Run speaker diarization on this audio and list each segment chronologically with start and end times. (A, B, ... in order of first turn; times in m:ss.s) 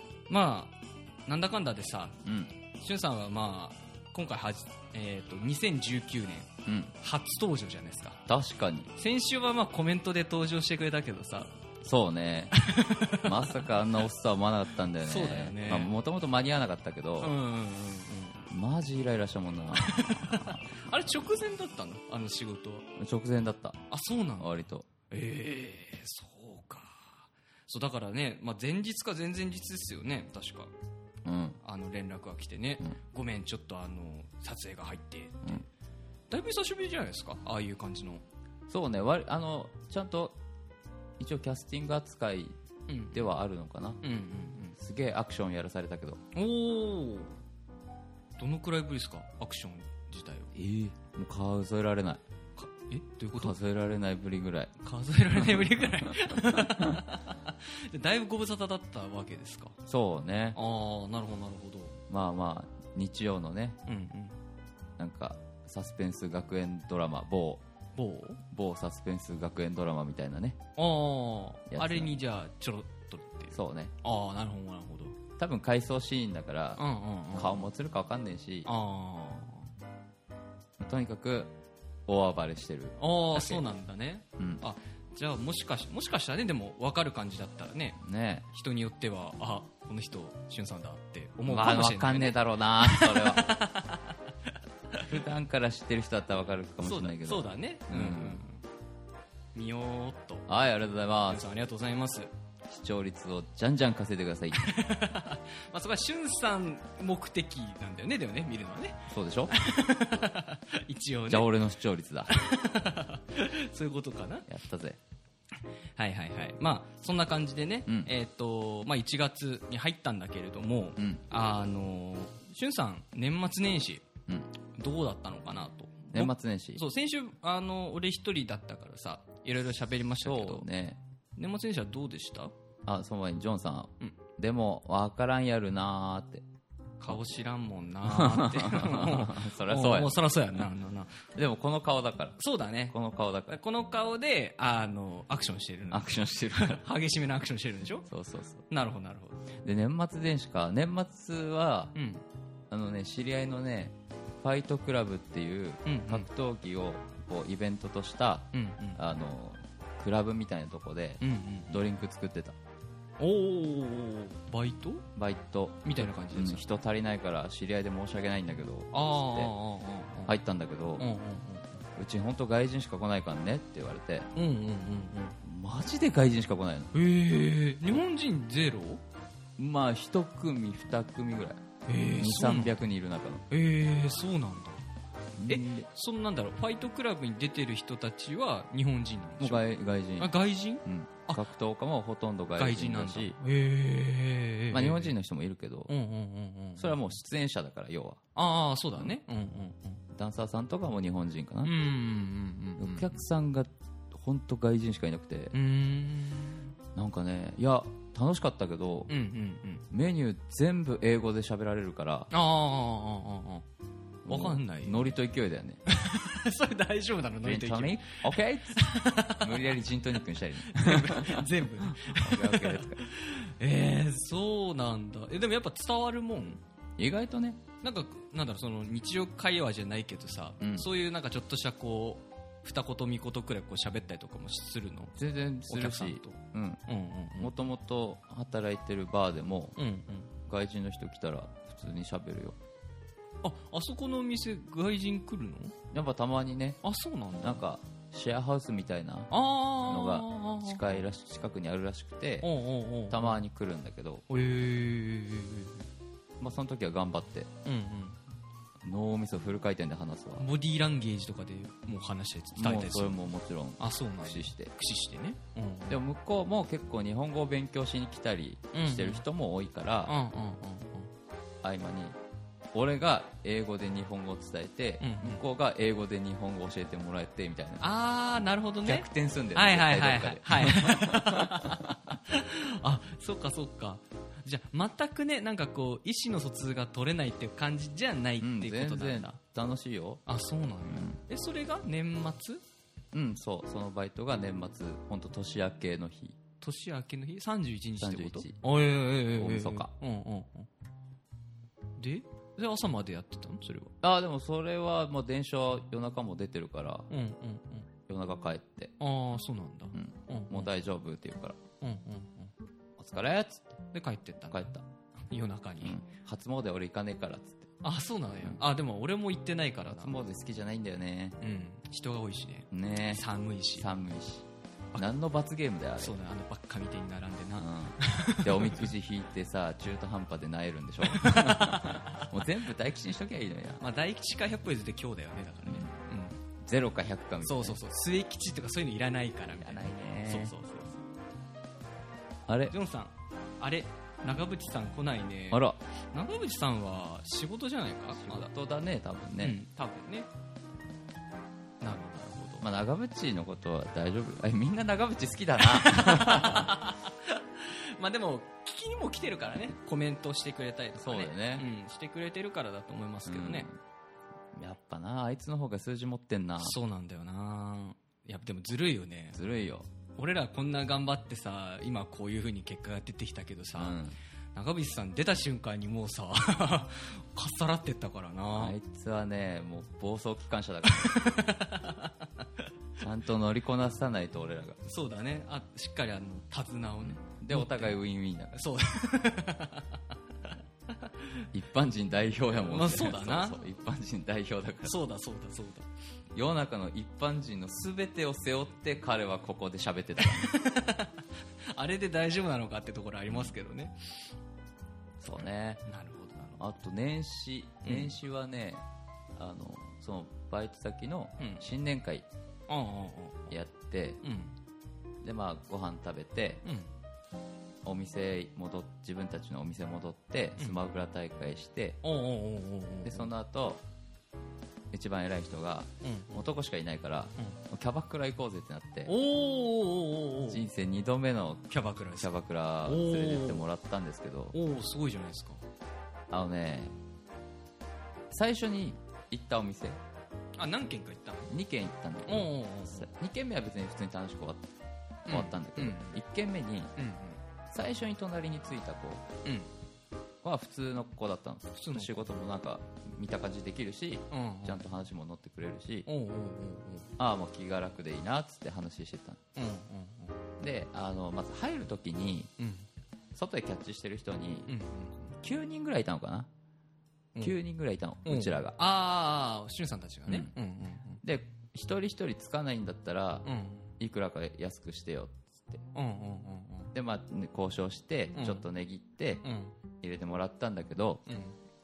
0:00.3-0:02.2 A
0:02.2-0:02.5 B
0:02.7-0:08.2 A
0:06.6-0:06.9 B
0:08.2-0:08.9 B
0:09.0-0:11.5 A
0:11.8-0:12.5 B
0:12.5-0:13.6 A
0:13.2-0:17.3 B
0:15.0-0:15.9 A
0:17.2-0:18.5 A
0:18.5-0:20.7 B
0:19.7-0:22.9 A
0:23.0-0:23.8 B
0:23.9-0:30.7 A
0:24.4-0:24.9 B
0:31.2-0:31.6 B
0:31.6-0:35.6 A
0:36.3-0:38.2 A
0:38.7-0:40.3 B
0:41.2-0:42.6 B
0:42.9-0:43.4 A
0:43.1-0:44.0 B
0:44.0-0:44.8 A
0:44.7-0:46.2 B
0:46.3-0:47.4 A
0:48.4-0:50.5 A
0:50.5-0:52.2 B
0:52.6-0:53.6 A
0:53.4-0:54.7 B
0:54.8-0:59.8 A
0:55.3-0:55.6 B
0:59.8-1:00.6 B
1:00.5-1:02.0 A
1:02.1-1:03.8 B
1:03.8-1:04.4 A
1:05.0-1:07.6 B
1:08.0-1:08.4 A
1:08.5-1:10.6 B
1:10.8-1:15.2 A
1:11.7-1:12.1 B
1:13.5-1:13.9 B
1:15.4-1:18.7 B
1:16.8-1:17.7 A
1:18.6-1:19.7 A
1:20.8-1:21.5 B
1:22.1-1:23.6 B
1:23.0-1:35.1 A
1:28.0-1:28.4 B
1:31.5-1:33.7 B
1:35.0-1:38.4 B
1:36.8-1:38.6 A
1:39.5-1:40.5 A
1:40.5-1:41.4 B
1:41.3-1:42.3 A
1:42.7-1:44.8 B
1:44.5-1:51.5 A
1:49.1-1:49.5 B
1:51.3-1:52.3 B
1:52.3-1:54.5 A
1:54.5-1:55.0 B
1:56.0-2:04.0 A
1:57.8-1:58.1 B
2:01.0-2:01.2 B
2:04.7-2:10.7 A
2:06.1-2:06.8 B
2:10.2-2:11.0 B
2:11.4-2:12.5 A
2:12.8-2:16.4 B
2:17.0-2:21.2 A
2:18.0-2:20.2 B
2:21.3-2:22.4 B
2:22.4-2:23.0 A
2:22.9-2:23.6 B
2:23.5-2:28.1 A
2:25.9-2:26.8 B
2:28.1-2:28.6 B
2:28.7-2:29.5 A
2:29.6-2:31.9 B
2:31.9-2:32.2 A
2:32.7-2:42.6 B
2:35.8-2:36.3 A
2:38.5-2:39.0 A
2:41.2-2:41.8 A
2:43.2-2:45.1 A
2:45.2-2:49.5 B
2:45.8-2:46.6 A
2:48.9-2:50.3 A
2:50.3-2:51.1 B
2:51.0-2:51.8 A
2:52.0-2:54.3 B
2:54.3-2:55.4 A
2:55.4-2:56.9 B
2:56.9-2:59.0 A
2:59.6-3:03.4 B
3:01.9-3:02.8 A
3:03.5-3:04.9 A
3:05.4-3:05.9 B
3:05.5-3:09.6 A
3:09.4-3:13.4 B
3:10.2-3:11.4 A
3:12.6-3:15.1 A
3:14.7-3:15.9 B
3:15.9-3:17.0 A
3:16.8-3:18.2 B
3:18.3-3:20.0 A
3:20.1-3:21.7 B
3:21.6-3:23.2 A
3:22.8-3:25.5 B
3:25.5-3:26.7 A
3:26.9-3:29.1 B
3:29.1-3:29.8 A
3:29.9-3:32.3 B
3:32.3-3:33.6 A
3:34.2-3:35.8 B
3:34.3-3:35.1 A
3:35.8-3:39.8 A
3:37.4-3:43.0 B
3:40.6-3:46.6 A
3:47.0-3:47.6 B
3:47.8-3:55.2 A
3:50.6-3:50.9 B
3:55.2-3:56.8 B
3:55.7-3:57.5 A
3:57.4-3:59.8 B
3:59.8-4:00.3 A
4:00.4-4:02.6 B
4:03.4-4:05.7 A
4:05.9-4:06.8 B
4:06.8-4:07.6 A
4:07.4-4:12.5 B
4:09.3-4:11.0 A
4:12.4-4:13.4 A
4:13.1-4:14.2 B
4:14.3-4:15.8 A
4:16.4-4:17.5 B
4:17.6-4:18.2 A
4:18.8-4:20.4 B
4:20.4-4:23.3 A
4:22.5-4:24.7 B
4:23.8-4:26.0 A
4:25.9-4:30.2 B
4:28.7-4:29.2 A
4:30.0-4:31.1 A
4:31.6-4:32.2 B
4:32.7-4:37.9 B
4:35.0-4:35.4 A
4:37.8-4:49.4 A
4:38.8-4:42.1 B
4:48.4-4:50.2 B
4:50.2-4:52.6 A
4:50.8-4:51.2 B
4:53.1-4:56.4 B
4:56.6-5:00.7 A
4:58.0-4:58.6 B
4:59.3-4:59.9 B
5:02.0-5:03.9 A
5:04.0-5:07.1 B
5:07.1-5:07.9 A
5:08.1-5:08.9 B
5:09.0-5:10.7 A
5:09.9-5:11.6 B
5:11.8-5:12.5 A
5:13.0-5:13.7 B
5:13.9-5:14.6 A
5:14.5-5:14.8 B
5:15.3-5:16.0 A
5:15.8-5:17.7 B
5:17.8-5:20.1 A
5:20.0-5:21.4 B
5:21.4-5:23.9 A
5:22.7-5:23.2 B
5:23.8-5:26.2 B
5:26.0-5:28.9 A
5:27.6-5:33.8 B
5:31.0-5:32.3 A
5:33.8-5:36.4 A
5:35.6-5:35.9 B
5:36.6-5:37.8 B
5:37.4-5:41.0 A
5:39.6-5:40.5 B
5:42.5-5:42.7 B
5:42.7-5:48.5 A
5:45.5-5:45.8 B
5:48.1-5:49.6 B
5:49.4-5:50.3 A
5:51.8-5:52.6 A
5:52.6-5:56.7 B
5:55.6-6:03.7 A
6:01.0-6:01.7 B
6:03.2-6:03.8 B
6:04.5-6:06.8 B
6:06.6-6:09.4 A
6:09.3-6:09.9 B
6:10.2-6:14.0 A
6:13.8-6:14.1 B
6:14.5-6:18.8 A
6:18.5-6:21.2 B
6:20.8-6:22.6 A
6:23.0-6:24.8 B
6:24.8-6:28.0 A
6:27.0-6:28.6 B
6:28.5-6:31.5 A
6:31.5-6:35.0 B
6:32.5-6:33.7 A
6:34.8-6:35.9 A
6:36.3-6:40.5 B
6:40.2-6:44.3 A
6:45.2-6:45.8 B
6:45.8-6:46.6 A
6:46.6-6:48.8 B
6:47.8-6:48.2 A
6:49.4-6:52.2 B
6:51.4-6:51.6 A
6:52.7-6:53.5 A
6:53.5-6:54.2 B
6:54.2-6:54.6 A
6:55.2-6:56.6 B
6:56.6-6:56.9 A
6:57.8-7:02.0 B
7:02.0-7:03.3 A
7:03.0-7:03.8 B
7:04.9-7:09.2 B
7:06.0-7:06.4 A
7:09.0-7:10.6 A
7:10.5-7:14.6 B
7:11.7-7:12.3 A
7:12.8-7:13.7 A
7:14.5-7:15.6 A
7:16.3-7:17.0 B
7:18.3-7:20.0 B
7:20.6-7:21.5 A
7:21.5-7:24.7 B
7:22.2-7:23.1 A
7:25.3-7:26.2 A
7:25.3-7:26.9 B
7:27.0-7:27.4 A
7:27.7-7:29.3 B
7:29.4-7:29.7 A
7:30.4-7:36.1 B
7:31.8-7:32.3 A
7:34.3-7:34.8 A
7:36.1-7:37.1 A
7:37.2-7:39.4 B
7:39.6-7:40.4 A
7:40.6-7:42.5 B
7:42.6-7:42.9 A
7:43.3-7:44.7 B
7:44.7-7:45.4 A
7:45.4-7:46.5 B
7:47.4-7:48.8 B
7:48.2-7:51.2 A
7:50.3-7:50.5 B
7:51.2-7:55.8 B
7:53.4-7:53.9 A
7:55.9-7:56.9 A
7:56.9-7:59.4 B
7:58.3-7:58.6 A
7:59.4-7:59.8 A
8:00.0-8:01.2 B
8:01.3-8:01.6 A